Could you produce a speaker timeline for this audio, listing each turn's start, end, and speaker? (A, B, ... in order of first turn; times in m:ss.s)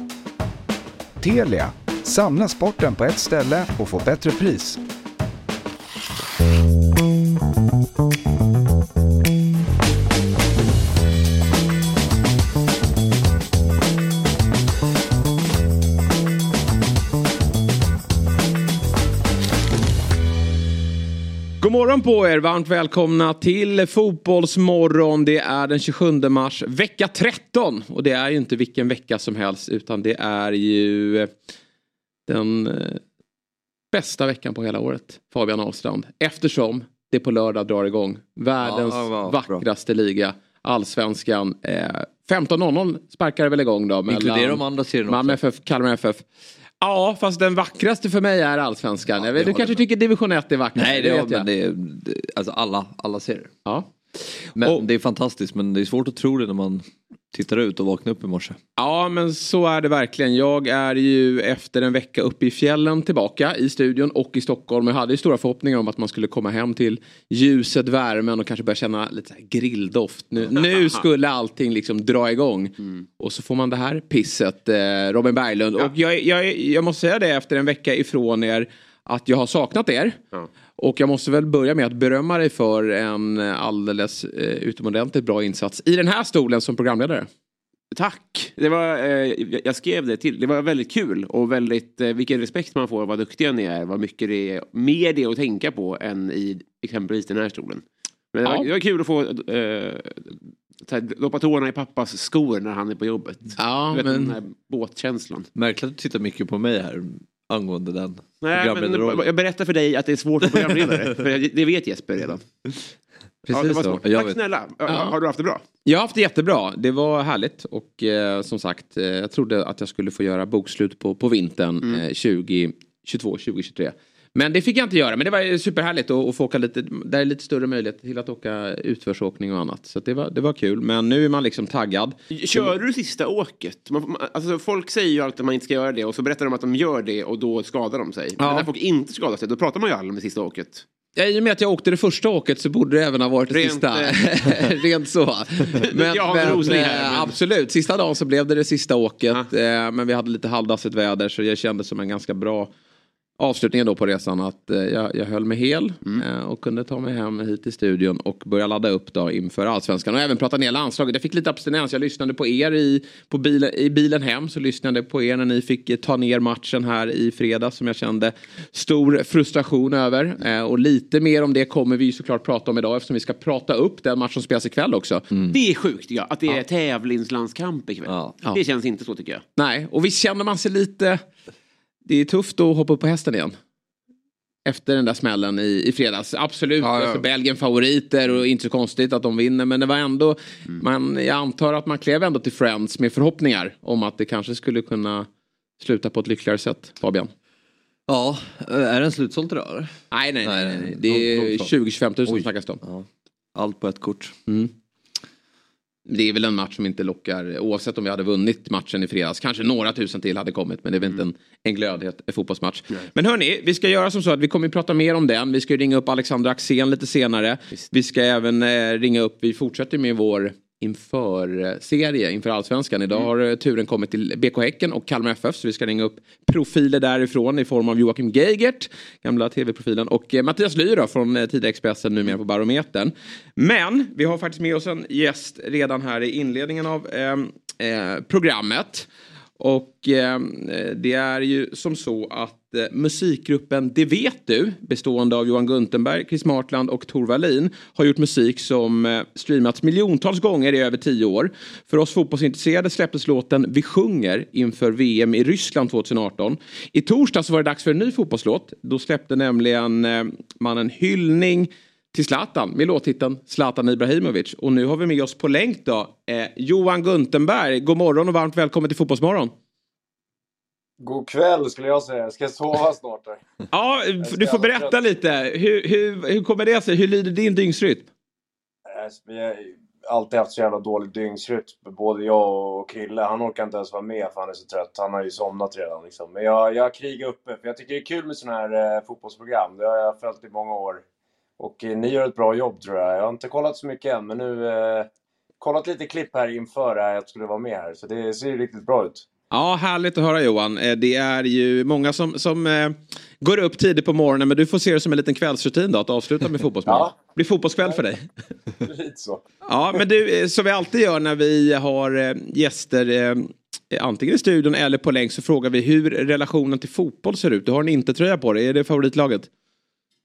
0:01.2-0:04.8 A
0:21.6-0:31.3 B
0:32.3-0:33.0 B
0:33.9-0:46.2 B
0:38.6-0:39.6 C
0:44.1-0:45.4 C
0:46.8-0:51.5 B
0:49.2-0:49.8 C
0:50.8-0:53.5 C
0:53.7-0:54.8 B
0:54.6-0:58.6 C
0:58.8-1:20.2 B
1:10.6-1:11.0 D
1:12.8-1:13.1 D
1:20.8-1:27.3 B
1:27.9-1:45.5 D
1:43.6-1:44.3 B
1:45.6-1:49.3 C
1:48.4-1:52.5 D
1:50.4-1:51.0 C
1:53.5-1:54.4 C
1:53.5-1:55.6 D
1:53.7-1:54.0 B
1:54.9-1:55.1 B
1:55.8-2:12.7 B
2:12.3-2:20.8 D
2:18.4-2:18.7 B
2:21.2-2:32.7 B
2:23.5-2:24.7 D
2:25.8-2:27.4 D
2:33.4-2:55.2 B
2:55.3-2:55.6 C
2:55.5-2:59.4 D
2:58.1-2:58.4 C
2:59.6-3:01.2 B
3:02.0-3:03.6 B
3:04.7-3:15.3 B
3:06.8-3:07.2 C
3:15.8-3:17.3 B
3:18.1-3:19.9 C
3:20.1-3:22.8 B
3:20.4-3:21.7 C
3:22.3-3:24.4 C
3:24.5-3:24.7 B
3:26.1-3:59.1 B
3:59.6-4:29.5 B
4:31.0-4:33.4 E
4:33.7-4:38.1 B
4:34.2-4:35.0 E
4:38.9-4:51.0 E
4:51.6-4:55.1 E
4:55.6-4:59.2 E
4:59.5-5:08.3 B
5:06.9-5:07.1 E
5:08.8-5:09.4 E
5:09.7-5:19.5 B